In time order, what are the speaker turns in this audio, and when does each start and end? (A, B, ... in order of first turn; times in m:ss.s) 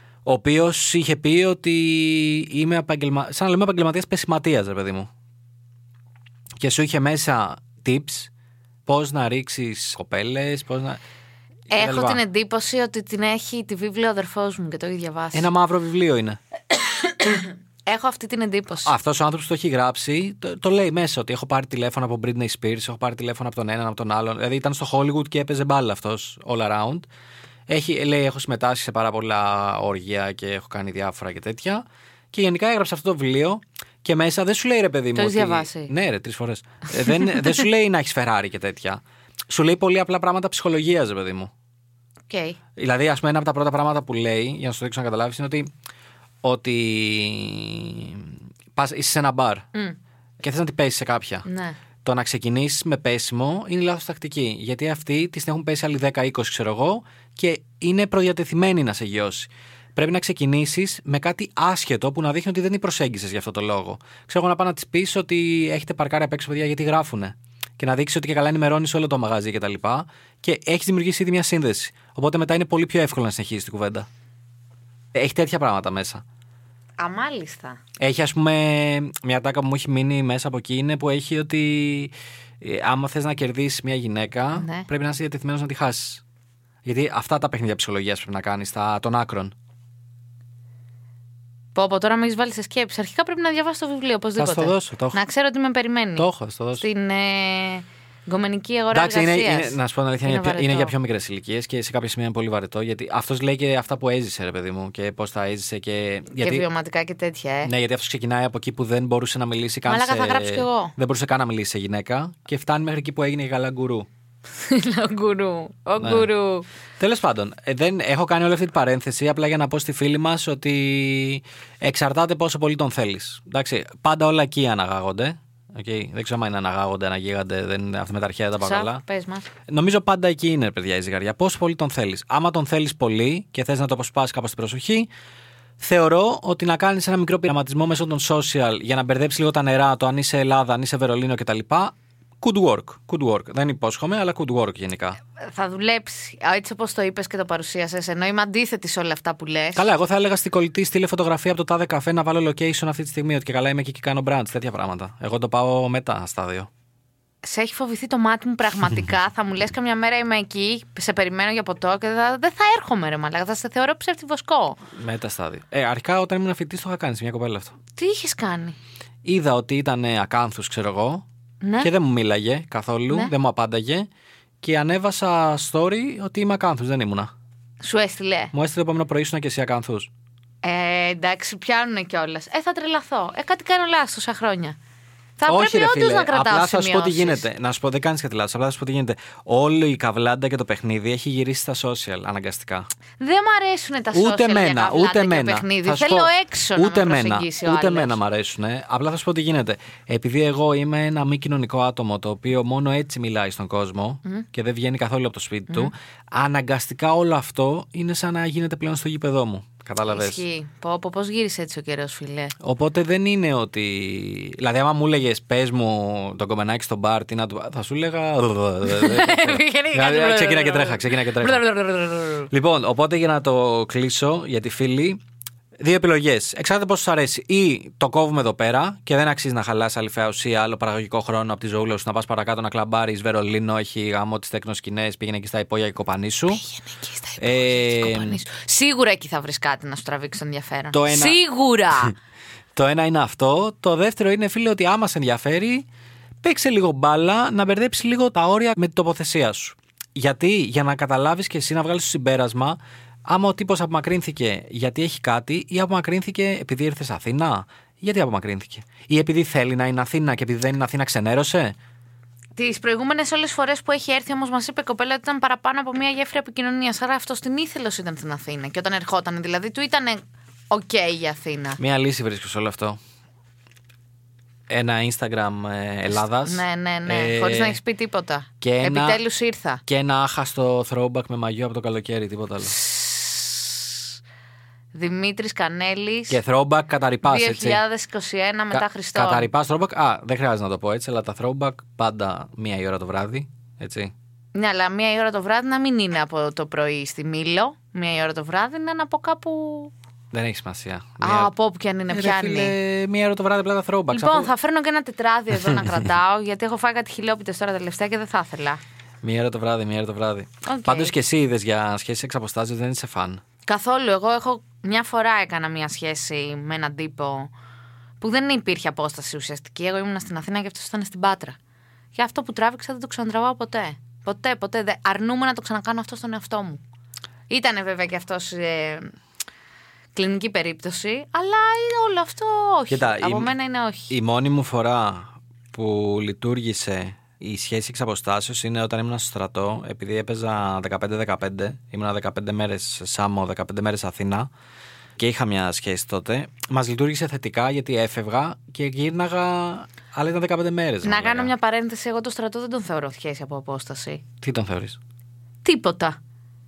0:00.2-0:05.1 A
0:06.6-0:08.3 A
0:08.9-0:11.0 A
0:11.7-0:15.5 B
0:11.7-0:12.2 A
0:15.3-0:16.4 A
0:17.2-0:18.9 B
0:18.8-0:27.1 A
0:27.7-0:41.5 A
0:35.2-0:35.9 B
0:42.3-0:42.6 B
0:42.8-0:45.7 A
0:46.4-0:49.7 A
0:50.4-0:51.4 A
0:51.5-0:51.8 B
0:52.0-1:14.1 A
1:15.2-1:16.2 A
1:17.0-1:17.8 B
1:18.0-1:26.2 A
1:24.6-1:24.9 B
1:26.8-1:29.5 A
1:31.7-1:36.3 B
1:34.4-1:35.2 A
1:36.2-1:36.9 A
1:36.8-1:40.9 B
1:38.9-1:46.7 A
1:46.3-1:47.7 B
1:47.6-1:54.1 A
1:49.9-1:50.9 B
1:54.6-1:56.7 B
1:56.0-1:56.3 A
1:57.0-2:09.0 A
2:08.6-2:09.5 B
2:09.7-2:15.1 A
2:15.8-2:25.2 A
2:25.4-2:29.9 B
2:29.8-2:36.7 A
2:37.4-2:44.8 B
2:45.0-2:47.8 A
2:48.0-2:48.8 B
2:49.2-2:51.2 A
2:51.6-2:51.9 B
2:51.8-2:54.1 A
2:54.6-2:57.3 A
2:57.8-2:58.5 B
2:58.5-3:00.1 A
3:00.6-3:04.8 B
3:05.4-3:07.5 B
3:05.5-3:12.9 A
3:13.2-3:18.2 B
3:14.1-3:30.4 A
3:30.1-3:32.6 B
3:32.6-3:41.8 A
3:38.8-3:42.5 B
3:42.5-3:45.2 A
3:45.8-3:56.6 A
3:56.5-4:02.2 B
3:57.4-3:58.4 A
4:00.9-4:01.4 A
4:02.8-4:05.9 A
4:06.4-4:21.8 A
4:22.6-4:31.8 B
4:31.8-4:33.0 A
4:34.7-4:37.8 A
4:36.1-4:39.8 B
4:38.6-4:39.2 A
4:39.9-4:42.8 A
4:42.8-4:44.0 B
4:44.9-4:46.4 B
4:46.3-4:47.8 A
4:47.2-4:49.5 B
4:48.7-4:54.1 A
4:54.5-4:59.9 B
5:00.3-5:01.5 A
5:01.2-5:02.8 B
5:02.1-5:04.5 A
5:04.1-5:08.8 B
5:05.6-5:06.0 A
5:09.2-5:13.4 A
5:10.6-5:11.2 B
5:13.7-5:17.5 B
5:18.2-5:21.6 B
5:22.2-5:26.8 B
5:27.5-5:29.2 B
5:30.1-5:34.1 B
5:32.9-5:33.5 A
5:34.1-5:44.5 A
5:45.2-5:51.5 A
5:51.0-5:54.2 B
5:54.4-5:55.0 A
5:55.6-5:56.2 B